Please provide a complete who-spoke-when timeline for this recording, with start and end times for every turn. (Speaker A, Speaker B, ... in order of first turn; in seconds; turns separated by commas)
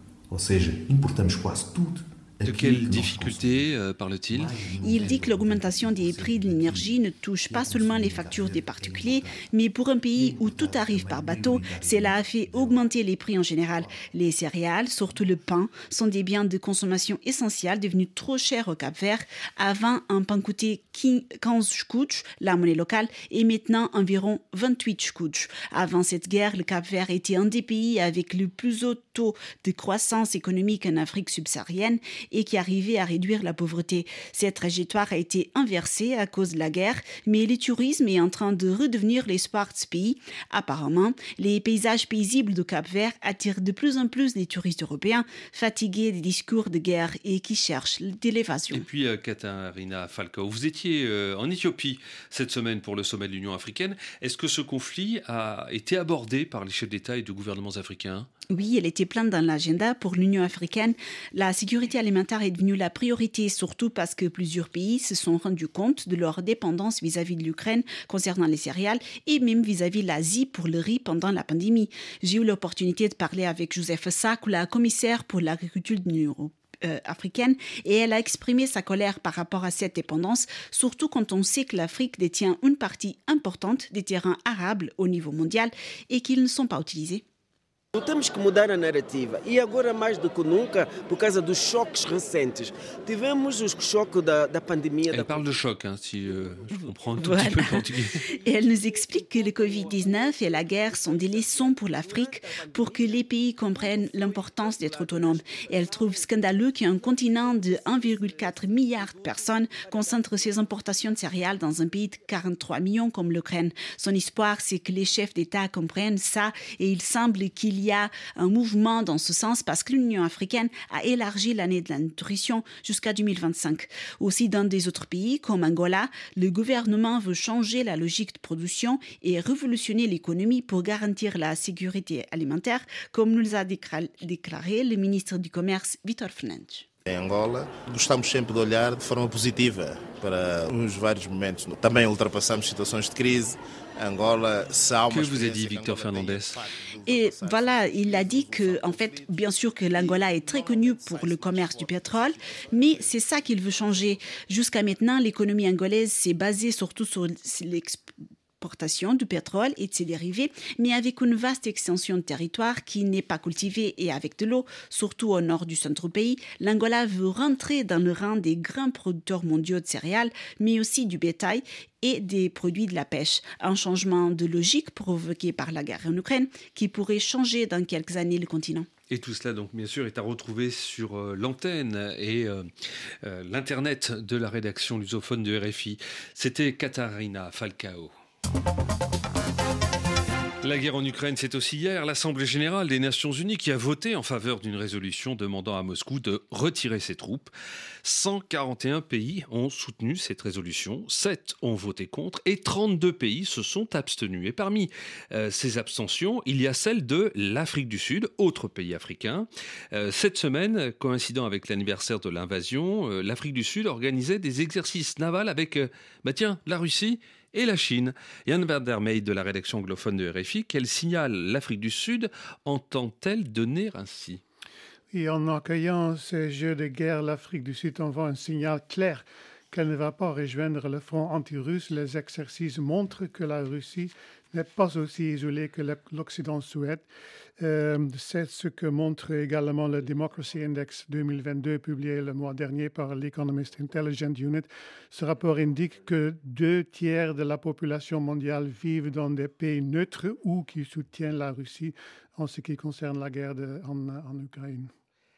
Speaker A: 0.3-3.7, Speaker B: 2.5-4.5, Speaker A: 4.3-9.5, Speaker C: 4.8-48.9, Speaker A: 10.2-12.9, Speaker A: 13.7-14.1, Speaker B: 48.7-58.3, Speaker C: 58.5-87.2, Speaker D: 87.9-95.6, Speaker B: 95.1-98.2, Speaker C: 97.2-136.9, Speaker D: 101.3-101.6, Speaker D: 104.1-105.7, Speaker E: 137.1-149.3, Speaker B: 145.1-146.6, Speaker C: 147.1-158.0, Speaker E: 149.9-152.2, Speaker E: 152.8-153.2, Speaker C: 158.6-178.9, Speaker B: 179.1-182.7, Speaker B: 183.2-188.1, Speaker B: 190.6-197.5, Speaker B: 198.0-224.4, Speaker F: 225.1-237.1, Speaker F: 237.6-254.9